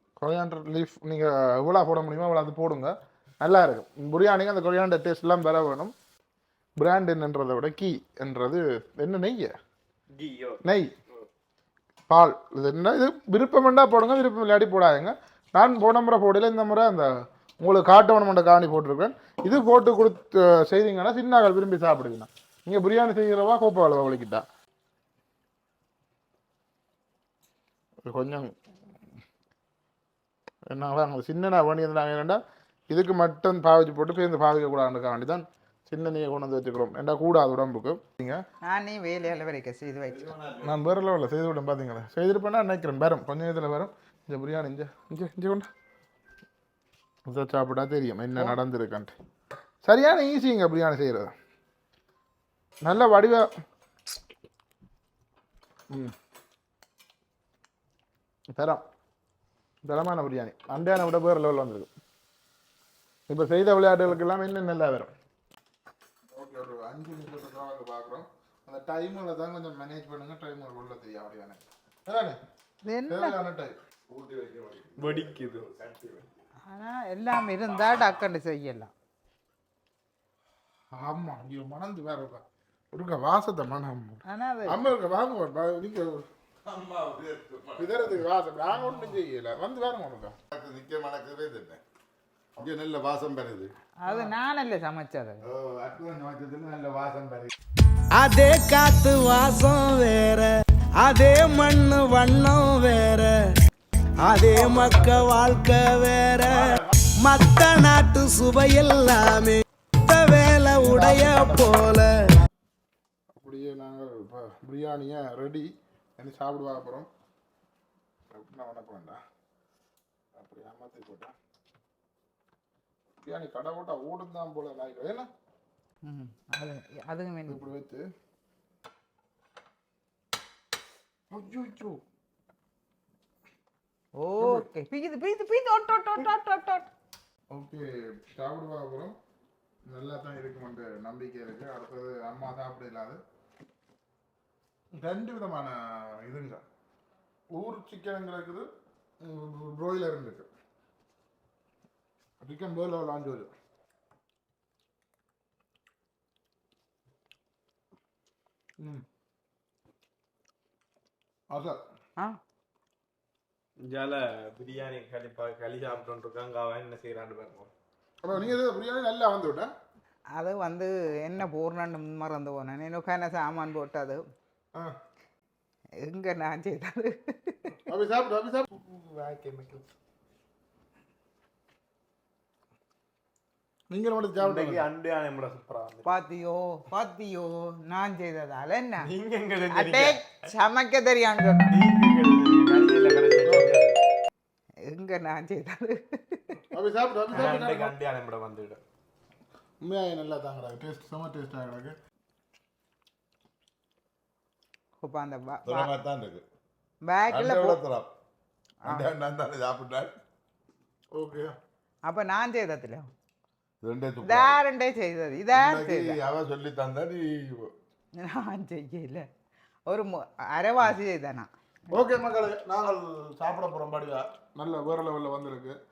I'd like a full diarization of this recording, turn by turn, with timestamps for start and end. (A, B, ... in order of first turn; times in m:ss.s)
0:00.2-0:05.9 A
0:06.8-0:09.5 A
0:10.2-0:10.6 B
0:10.6-0:10.9 A
0:12.1-0:24.4 A
0:28.0-0:28.5 A
0:30.7-0:38.4 A
0:38.6-0:40.4 C
0:40.3-0:40.6 B
0:40.6-0:45.7 A
0:47.3-0:49.1 A
0:49.8-0:51.3 A
0:52.8-0:53.5 A
0:58.5-0:58.8 A
0:59.8-1:01.9 A
1:03.3-1:05.1 A
1:06.3-1:12.4 A
1:12.8-1:13.4 C
1:13.1-1:13.8 A
1:14.1-1:16.3 D
1:15.0-1:15.6 B
1:16.7-1:18.9 C
1:21.0-1:26.3 A
1:24.2-1:24.8 C
1:26.6-1:28.2 D
1:27.8-1:30.4 A
1:30.5-1:31.8 D
1:32.6-1:33.7 D
1:34.0-1:35.4 C
1:35.5-1:37.5 D
1:38.1-1:43.5 E
1:44.2-1:52.3 E
1:50.8-1:51.6 A
1:53.3-1:57.1 A
1:58.3-1:59.2 A
2:00.3-2:01.3 A
2:03.2-2:05.3 A
2:06.0-2:07.6 C
2:07.5-2:08.1 A
2:11.3-2:12.0 A
2:14.2-2:16.9 C
2:14.4-2:14.7 A
2:17.5-2:19.2 A
2:19.9-2:23.2 A
2:24.9-2:26.6 A
2:27.5-2:28.7 A
2:29.2-2:30.5 A
2:32.4-2:33.5 A
2:38.8-2:39.0 A
2:41.5-2:41.8 A
2:43.8-2:47.7 B
2:48.2-2:49.7 A
2:50.3-2:54.2 C
2:56.0-2:57.8 C
2:57.8-2:58.7 A
2:58.9-2:59.8 C
3:03.9-3:04.8 A
3:04.4-3:06.0 B
3:06.0-3:09.1 C
3:09.0-3:10.5 B
3:09.7-3:11.8 C
3:11.7-3:14.0 B
3:13.4-3:13.7 A
3:14.8-3:16.6 C
3:16.7-3:17.9 A
3:17.3-3:18.8 B
3:19.8-3:22.0 A
3:25.0-3:26.0 C
3:25.6-3:26.4 D
3:27.1-3:27.8 C
3:27.3-3:28.1 D
3:28.9-3:30.1 D
3:31.2-3:31.4 A
3:32.1-3:33.1 C
3:33.8-3:34.6 D
3:34.2-3:36.2 C
3:35.5-3:37.7 D
3:38.2-3:39.3 C
3:39.9-3:41.5 C
3:41.9-3:45.8 A